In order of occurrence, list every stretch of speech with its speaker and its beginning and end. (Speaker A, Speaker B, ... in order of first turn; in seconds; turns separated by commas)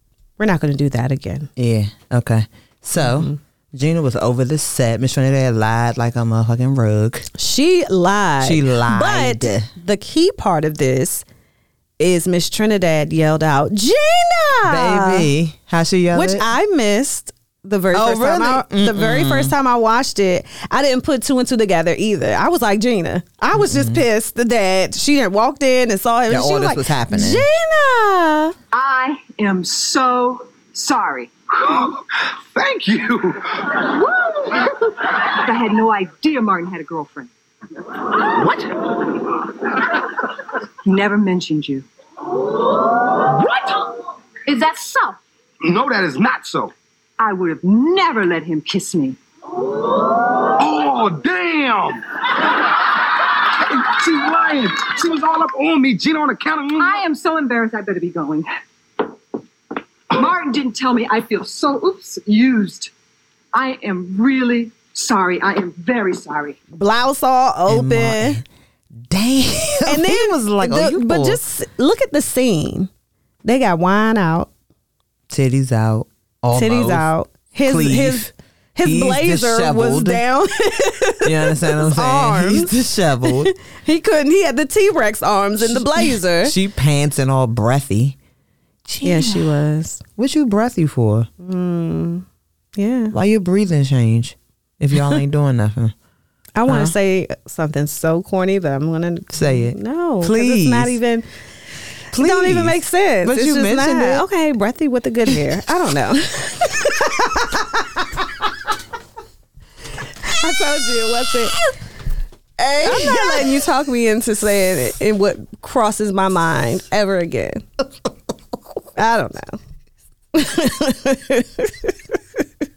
Speaker A: 0.4-1.5, Speaker B: 1.6-7.2, Speaker A: 3.0-3.4, Speaker A: 7.3-11.2, Speaker B: 8.4-9.7, Speaker A: 12.0-15.3, Speaker B: 14.6-16.4, Speaker A: 16.1-28.6, Speaker B: 17.9-19.5, Speaker B: 23.5-24.0, Speaker B: 26.3-27.4, Speaker C: 28.7-31.3, Speaker D: 31.6-33.7, Speaker C: 33.7-37.3, Speaker C: 37.9-41.8, Speaker C: 43.0-45.2, Speaker D: 45.6-46.7, Speaker C: 47.2-49.2, Speaker D: 50.6-57.0, Speaker C: 56.8-58.5, Speaker C: 60.1-62.9, Speaker C: 63.5-66.6, Speaker A: 66.7-68.4, Speaker B: 67.7-68.4, Speaker B: 69.1-71.4, Speaker A: 69.8-72.9, Speaker A: 73.4-74.5, Speaker B: 75.3-77.1, Speaker A: 76.5-86.5, Speaker B: 77.6-80.2, Speaker B: 81.2-83.5, Speaker B: 85.6-88.2, Speaker B: 88.9-89.5, Speaker A: 89.0-90.0, Speaker B: 90.2-91.3, Speaker A: 91.4-92.2, Speaker A: 92.8-93.1, Speaker B: 93.1-95.9, Speaker A: 96.6-101.2, Speaker B: 96.7-96.9, Speaker B: 99.3-101.0, Speaker B: 102.1-104.2, Speaker A: 102.2-108.0, Speaker A: 110.2-111.6, Speaker B: 112.6-113.6, Speaker A: 112.8-117.6, Speaker A: 119.0-119.6, Speaker A: 120.3-122.0